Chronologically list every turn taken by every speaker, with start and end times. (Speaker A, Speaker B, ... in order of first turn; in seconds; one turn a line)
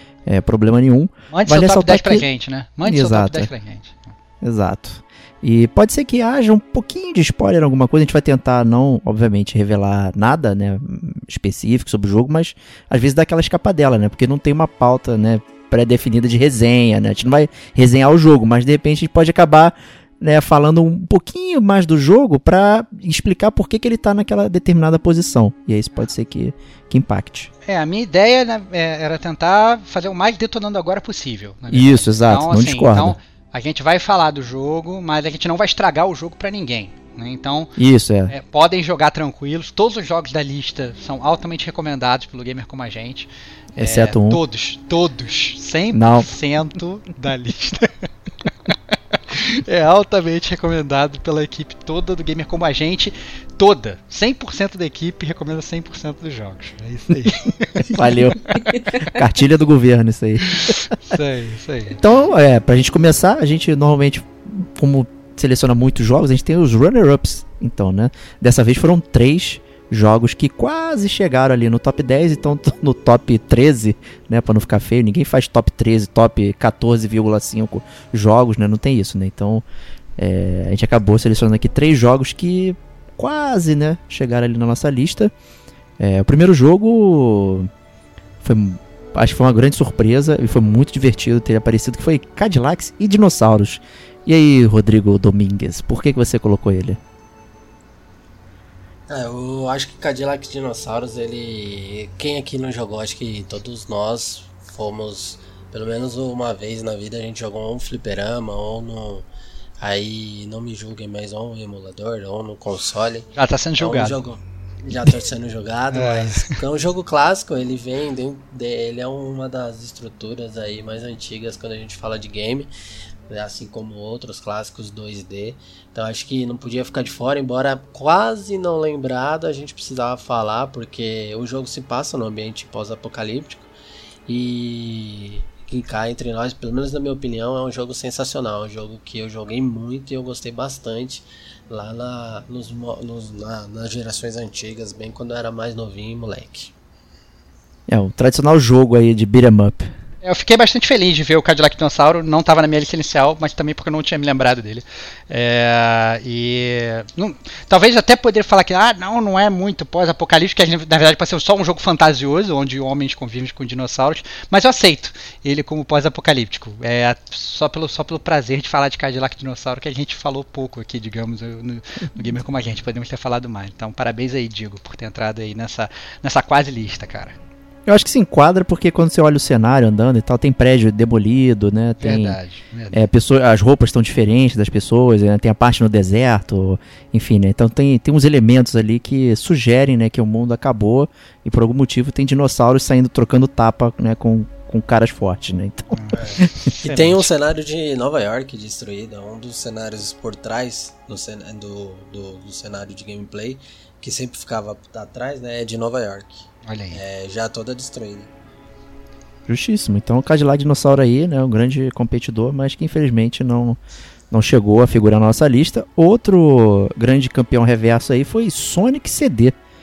Speaker A: 0.3-2.3
Speaker B: 1.3-4.1
Speaker A: 2.8-3.5
Speaker A: 4.4-27.5
Speaker B: 27.7-37.7
Speaker A: 31.7-33.2
Speaker A: 37.8-38.3
Speaker B: 38.3-48.5
Speaker A: 43.8-44.4
Speaker A: 45.9-46.3
Speaker B: 49.3-58.6
Speaker A: 57.8-60.9
Speaker B: 60.5-62.0
Speaker A: 62.0-79.7
Speaker A: 80.2-85.3
Speaker A: 86.0-87.7
Speaker A: 88.4-97.0
Speaker C: 99.1-109.3
Speaker C: 109.8-122.7
Speaker B: 113.3-114.2
Speaker B: 115.9-116.6
Speaker C: 123.3-133.7
Speaker C: 134.3-146.7
Speaker A: 147.9-149.9
Speaker B: 150.2-177.4
Speaker A: 177.9-182.4
Speaker B: 182.0-183.1
Speaker A: 182.9-196.7
Speaker B: 195.9-197.3
Speaker C: 196.8-208.3
Speaker B: 206.6-207.0
Speaker A: 209.5-213.8
Speaker A: 214.3-219.6